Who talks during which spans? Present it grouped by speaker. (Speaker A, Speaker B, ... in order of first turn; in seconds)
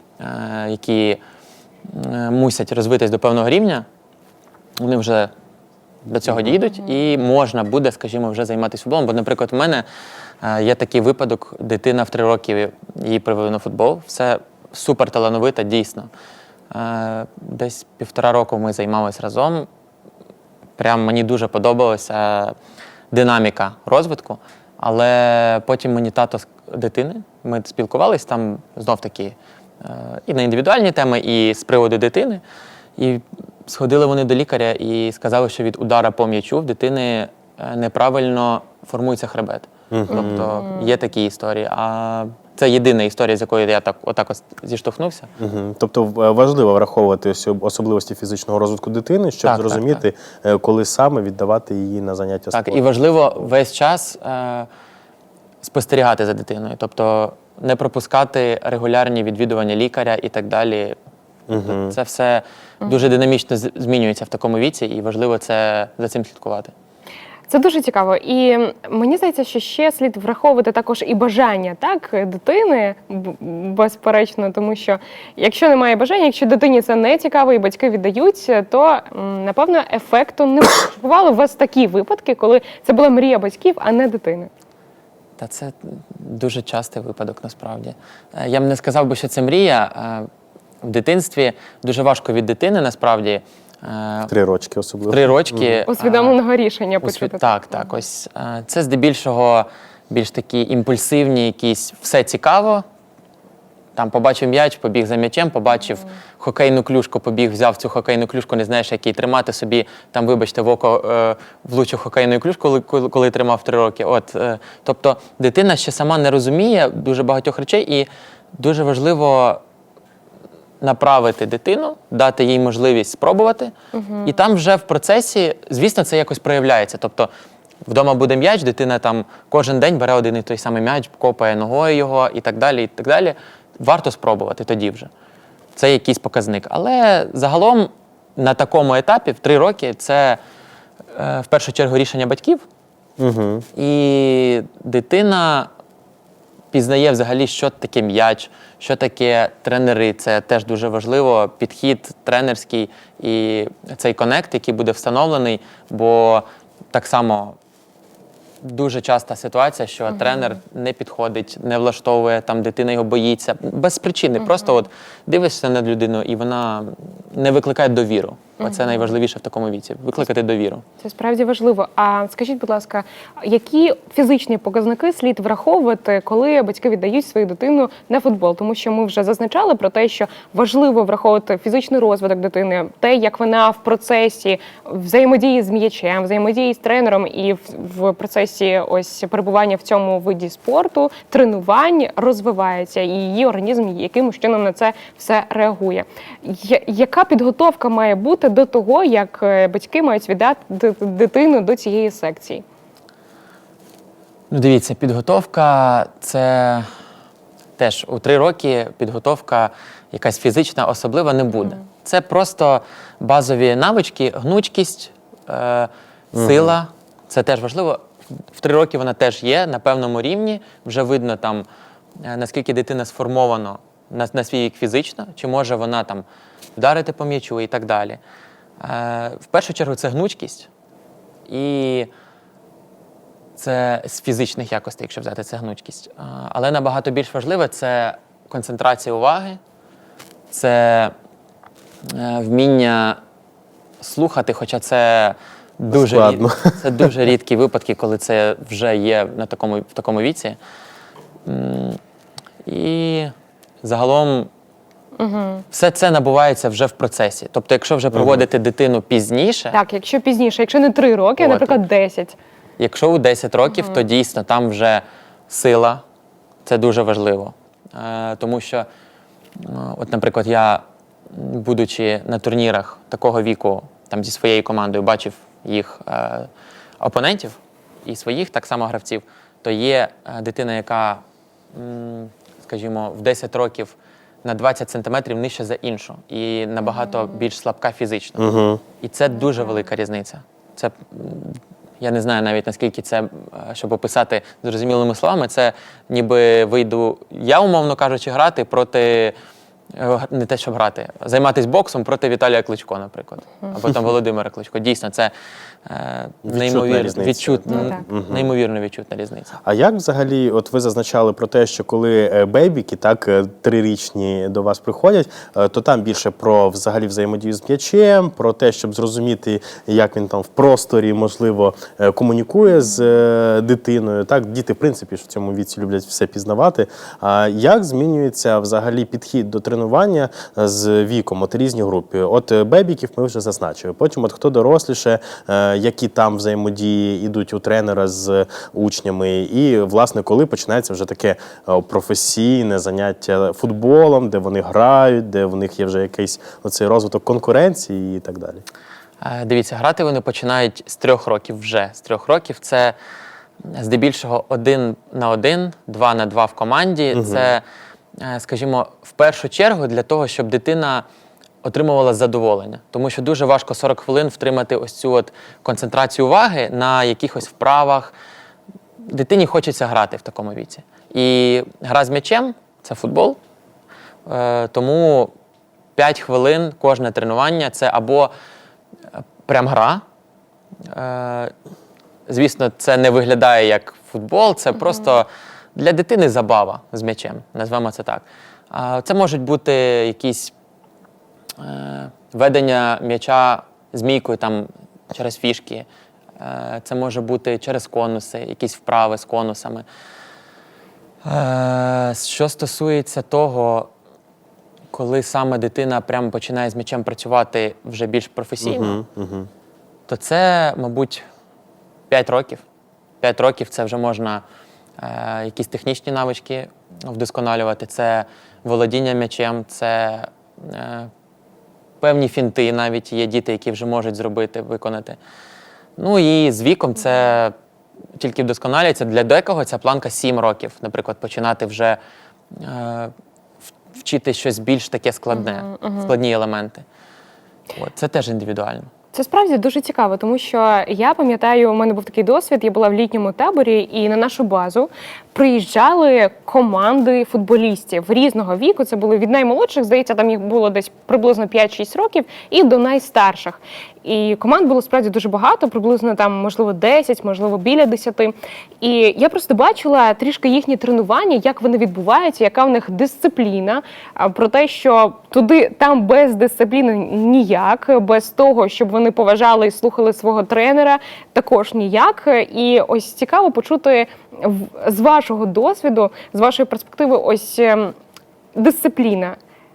Speaker A: 0.2-1.2, 1.8-3.8, 4.8-5.3, 6.1-9.8, 10.4-16.1, 16.7-19.7, 20.8-22.5, 23.1-32.4, 33.0-45.3, 49.4-50.0, 52.5-54.7, 55.6-61.0, 61.6-66.7, 85.4-90.2, 90.8-94.3, 95.1-96.4, 97.0-102.8, 104.0-119.6, 120.8-123.7, 124.2-127.3, 127.8-135.1, 135.8-140.4, 141.1-142.6, 143.8-145.7, 146.7-157.6, 158.6-170.8, 204.5-206.9, 207.8-218.0, 218.5-221.7, 222.2-226.2, 226.8-228.2, 228.8-230.7, 231.5-232.1, 233.6-239.6, 240.5-241.1, 242.1-243.2, 244.0-250.6, 251.5-252.0, 252.7-253.3, 253.8-254.5, 255.7-259.8, 261.4-261.8, 262.8-266.0, 266.6-268.9, 269.6-276.5, 277.0-281.2, 281.7-288.4, 289.0-299.3, 299.9-305.3, 305.9-309.6, 349.2-352.9, 353.7-357.6, 358.2-361.0, 361.6-368.1, 369.0-373.4, 374.2-375.3, 375.9-378.3, 379.4-380.0, 380.9-381.5, 382.3-390.5, 391.6-395.9, 396.4-399.8, 401.2-403.9, 404.9-409.0, 410.1-411.2, 412.1-412.6, 413.2-414.4, 415.0-421.1, 422.0-425.2, 426.0-427.5, 428.2-432.0, 432.5-433.1, 433.9-436.8, 437.8-438.9
Speaker B: 39.9-40.5, 45.4-52.8, 61.5-62.0, 94.3-95.8, 143.2-143.7, 216.3-216.8, 245.9-247.1, 258.1-258.4, 288.4-288.8, 306.4-308.5, 309.6-348.6, 357.1-357.5, 408.6-409.5
Speaker C: 40.1-40.6, 67.5-84.5, 95.9-97.8, 123.9-124.3, 160.2-160.5, 168.6-169.1, 171.0-202.6, 255.2-255.6, 259.7-262.3, 263.7-264.0, 307.7-308.0, 435.3-436.1, 439.1-477.9, 478.6-479.4